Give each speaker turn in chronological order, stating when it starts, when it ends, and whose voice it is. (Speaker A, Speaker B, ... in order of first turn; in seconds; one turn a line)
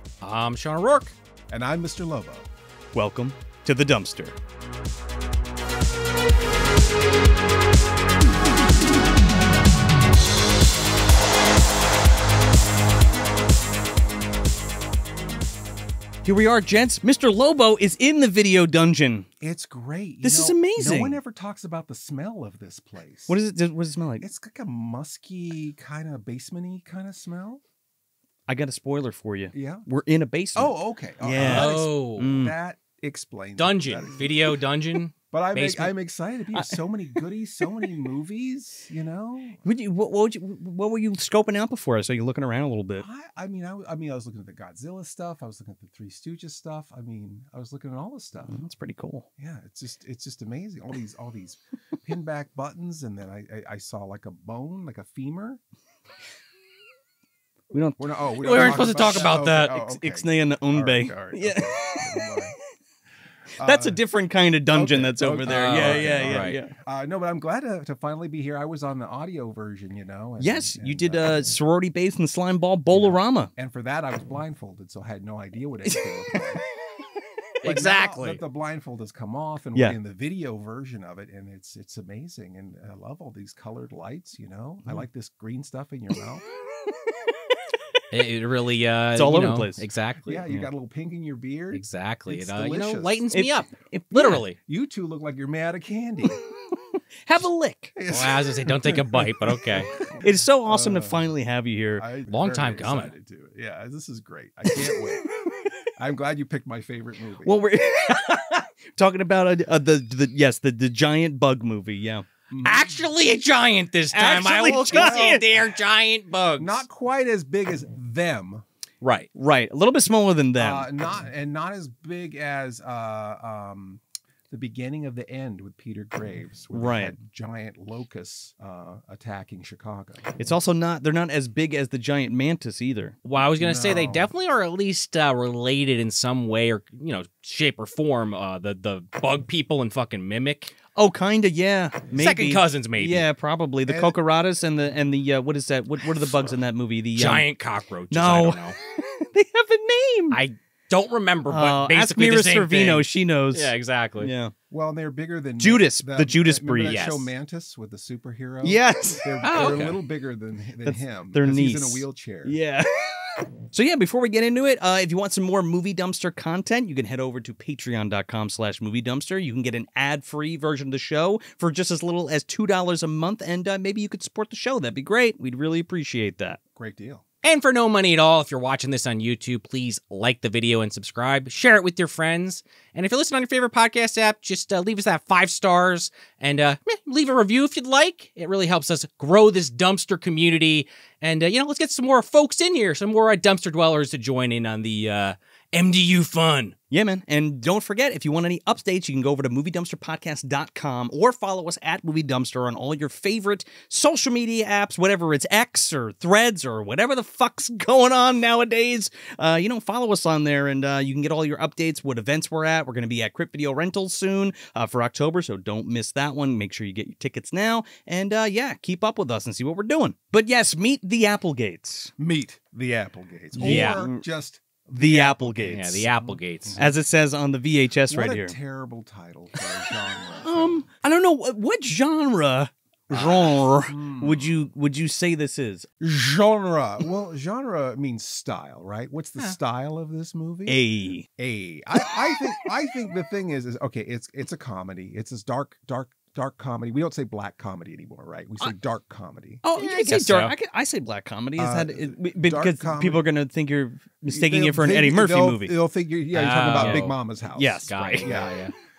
Speaker A: 0.2-1.1
Speaker B: 1.5-2.5
Speaker C: 2.9-4.4
Speaker C: 16.2-19.3
Speaker B: 19.4-23.4
Speaker C: 20.2-21.2
Speaker C: 23.3-24.3
Speaker B: 24.2-27.6
Speaker C: 28.5-32.5
Speaker B: 29.5-29.9
Speaker B: 30.6-34.5
Speaker A: 31.4-32.3
Speaker A: 33.6-35.9
Speaker B: 35.3-39.6
Speaker C: 36.5-37.2
Speaker C: 39.6-43.0
Speaker B: 43.0-48.6
Speaker C: 48.5-49.3
Speaker B: 49.4-55.6
Speaker C: 57.7-62.2
Speaker B: 58.0-62.5
Speaker A: 58.4-59.7
Speaker B: 63.5-64.0
Speaker C: 63.6-66.7
Speaker B: 64.7-71.5
Speaker A: 65.5-66.6
Speaker C: 70.4-73.5
Speaker B: 72.9-76.6
Speaker C: 75.8-76.3
Speaker A: 77.6-78.4
Speaker B: 77.6-86.4
Speaker A: 88.1-90.4
Speaker C: 89.2-89.8
Speaker B: 90.2-93.2
Speaker A: 91.7-94.6
Speaker C: 93.3-94.4
Speaker B: 94.6-96.4
Speaker C: 97.2-97.9
Speaker B: 97.9-101.3
Speaker A: 98.1-99.9
Speaker C: 100.2-102.1
Speaker B: 102.0-105.2
Speaker A: 102.3-103.1
Speaker B: 106.0-107.6
Speaker C: 107.4-112.3
Speaker B: 112.5-113.0
Speaker A: 112.6-116.8
Speaker C: 114.1-115.4
Speaker B: 114.9-115.6
Speaker B: 116.6-118.7
Speaker A: 119.0-119.3
Speaker C: 119.3-120.9
Speaker B: 120.6-130.3
Speaker C: 126.7-127.2
Speaker C: 130.4-133.2
Speaker A: 133.2-140.8
Speaker B: 133.6-134.3
Speaker C: 140.9-147.5
Speaker A: 142.2-143.2
Speaker B: 143.8-144.2
Speaker A: 147.2-148.8
Speaker C: 148.1-150.4
Speaker A: 150.3-154.3
Speaker C: 151.5-154.5
Speaker B: 154.7-162.6
Speaker C: 155.6-157.0
Speaker A: 156.9-157.3
Speaker C: 158.6-159.9
Speaker A: 159.4-160.0
Speaker C: 160.8-176.6
Speaker B: 176.8-177.2
Speaker A: 177.4-196.8
Speaker C: 196.9-222.1
Speaker B: 222.2-226.9
Speaker C: 223.6-224.2
Speaker A: 223.6-224.0
Speaker C: 224.9-226.1
Speaker A: 225.7-226.8
Speaker C: 226.8-228.6
Speaker B: 228.1-230.8
Speaker C: 230.4-235.9
Speaker B: 233.1-234.5
Speaker B: 236.0-240.8
Speaker C: 240.7-241.3
Speaker B: 241.4-249.6
Speaker C: 249.6-255.8
Speaker A: 249.7-250.5
Speaker B: 251.6-253.2
Speaker B: 254.3-258.6
Speaker A: 256.3-257.1
Speaker C: 256.8-258.4
Speaker A: 257.9-258.7